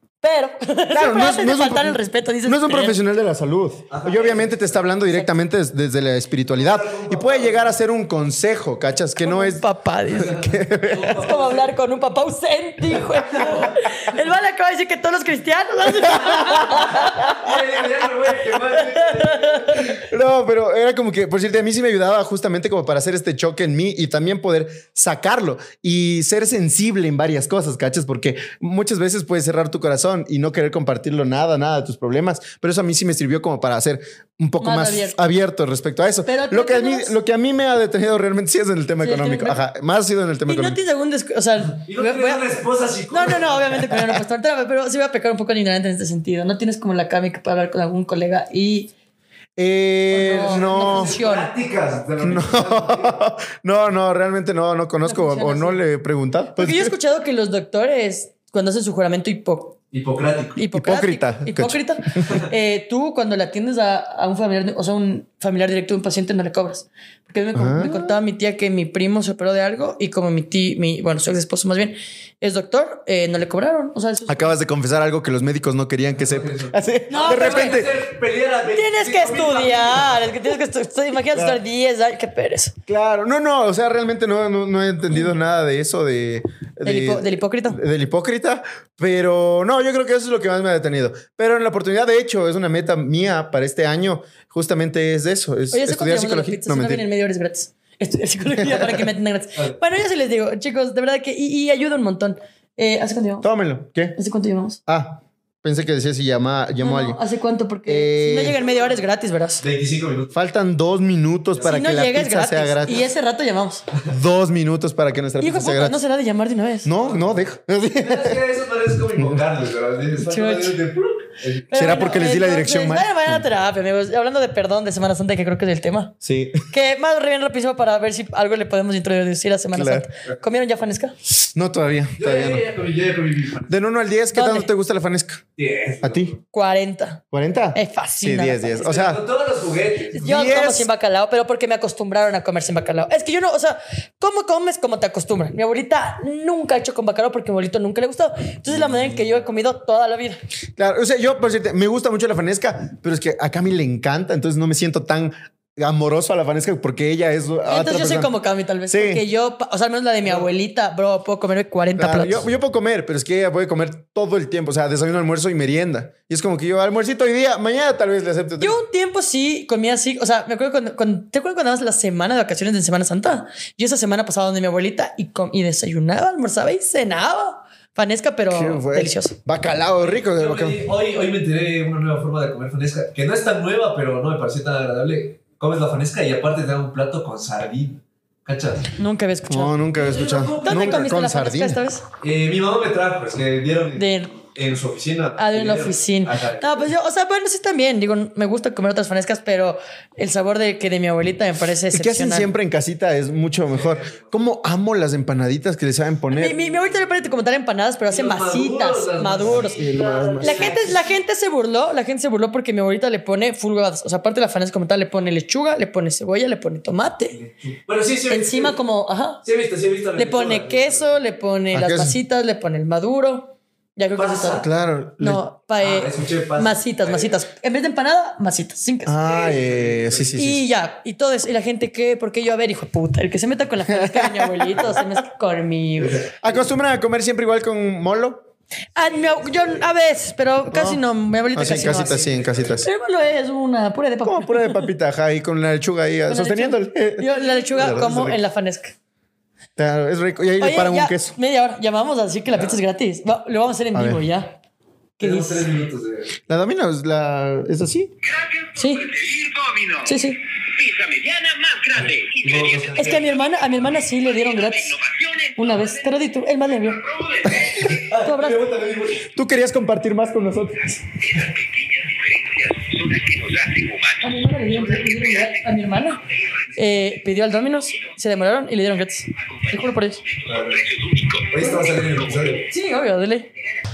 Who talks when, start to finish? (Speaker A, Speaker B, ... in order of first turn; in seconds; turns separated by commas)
Speaker A: 0.2-3.0, Speaker B: 0.9-9.6, Speaker C: 3.9-4.8, Speaker C: 6.5-7.7, Speaker A: 9.2-10.4, Speaker B: 10.2-11.2, Speaker C: 10.2-11.7, Speaker A: 11.0-17.5, Speaker C: 12.9-13.7, Speaker B: 15.9-17.1, Speaker C: 16.7-19.9, Speaker A: 18.7-19.9, Speaker B: 19.9-40.8, Speaker A: 34.6-35.2, Speaker A: 36.2-37.1, Speaker A: 39.0-39.6, Speaker A: 40.5-42.5, Speaker C: 41.7-44.0, Speaker A: 43.1-48.9, Speaker B: 49.6-51.1, Speaker A: 50.1-51.5, Speaker C: 50.4-53.2, Speaker B: 52.2-56.9, Speaker A: 55.0-55.8, Speaker A: 56.5-59.8, Speaker C: 59.9-60.6, Speaker A: 60.5-74.5, Speaker B: 60.7-62.3, Speaker B: 67.5-68.1, Speaker B: 74.3-78.0, Speaker C: 76.1-80.3, Speaker A: 77.1-77.8, Speaker A: 78.7-82.7, Speaker B: 81.3-81.6, Speaker B: 82.9-97.0, Speaker A: 86.8-87.8, Speaker A: 95.7-103.5, Speaker B: 98.6-99.0, Speaker B: 103.4-104.1, Speaker A: 104.2-104.8, Speaker B: 104.9-107.2, Speaker A: 106.8-109.6, Speaker B: 107.8-108.6, Speaker C: 108.5-109.0, Speaker C: 109.6-110.4, Speaker B: 110.3-113.1, Speaker A: 111.6-113.8, Speaker B: 114.1-116.0, Speaker A: 115.4-116.9, Speaker B: 116.8-118.4, Speaker C: 117.0-121.9, Speaker B: 119.2-119.4, Speaker A: 120.2-120.8, Speaker A: 121.7-126.1, Speaker B: 121.7-123.5, Speaker B: 126.2-126.7, Speaker A: 126.7-131.1, Speaker B: 129.7-130.1, Speaker B: 131.3-132.7, Speaker C: 132.2-133.7, Speaker B: 133.7-135.4, Speaker A: 134.3-134.7, Speaker C: 135.6-136.4, Speaker B: 136.0-136.3, Speaker A: 136.5-137.2, Speaker B: 137.3-139.2, Speaker A: 137.7-138.9, Speaker C: 138.8-140.3, Speaker A: 140.2-150.4, Speaker B: 140.2-140.9, Speaker B: 150.8-158.3, Speaker A: 157.7-162.4, Speaker B: 158.9-159.2, Speaker B: 162.0-168.8, Speaker A: 168.6-179.3, Speaker B: 178.5-180.8, Speaker C: 180.0-188.9, Speaker A: 188.9-189.8, Speaker B: 189.5-191.8, Speaker C: 189.9-191.2, Speaker A: 190.6-192.0, Speaker C: 192.2-196.9, Speaker A: 193.9-194.4, Speaker A: 195.4-202.5, Speaker B: 201.9-206.5, Speaker C: 203.7-204.4, Speaker A: 206.3-209.8, Speaker C: 206.6-207.2, Speaker C: 208.1-211.0, Speaker B: 209.4-210.9, Speaker A: 210.4-217.4, Speaker C: 217.3-218.8, Speaker A: 218.3-219.4, Speaker C: 219.4-221.2, Speaker A: 220.2-224.6, Speaker B: 221.7-222.2, Speaker C: 224.1-224.7, Speaker B: 224.5-225.4, Speaker A: 225.2-229.2, Speaker C: 225.8-227.4, Speaker B: 229.1-230.6, Speaker C: 229.2-230.4, Speaker A: 230.4-236.3, Speaker B: 233.9-235.0, Speaker C: 236.0-236.3, Speaker B: 236.4-238.4, Speaker A: 238.9-242.2, Speaker B: 240.7-241.0, Speaker C: 241.5-242.8, Speaker B: 241.5-242.9, Speaker A: 242.8-244.9, Speaker B: 244.2-248.4, Speaker A: 246.3-248.9, Speaker B: 249.8-251.3, Speaker A: 250.6-254.6, Speaker B: 253.9-254.2, Speaker A: 255.2-255.7, Speaker C: 255.2-256.4, Speaker B: 256.5-258.1, Speaker D: 258.2-263.4, Speaker A: 258.8-259.1, Speaker A: 260.0-260.4, Speaker C: 262.0-263.3, Speaker A: 262.9-265.0, Speaker D: 264.1-266.2, Speaker A: 265.6-267.0, Speaker D: 266.9-267.9, Speaker C: 267.7-269.3, Speaker A: 268.2-268.6, Speaker B: 269.2-271.2, Speaker D: 271.2-277.2, Speaker A: 274.2-276.2, Speaker A: 276.8-280.2, Speaker D: 279.4-282.1, Speaker C: 280.4-280.9, Speaker C: 281.5-282.7, Speaker A: 282.7-283.5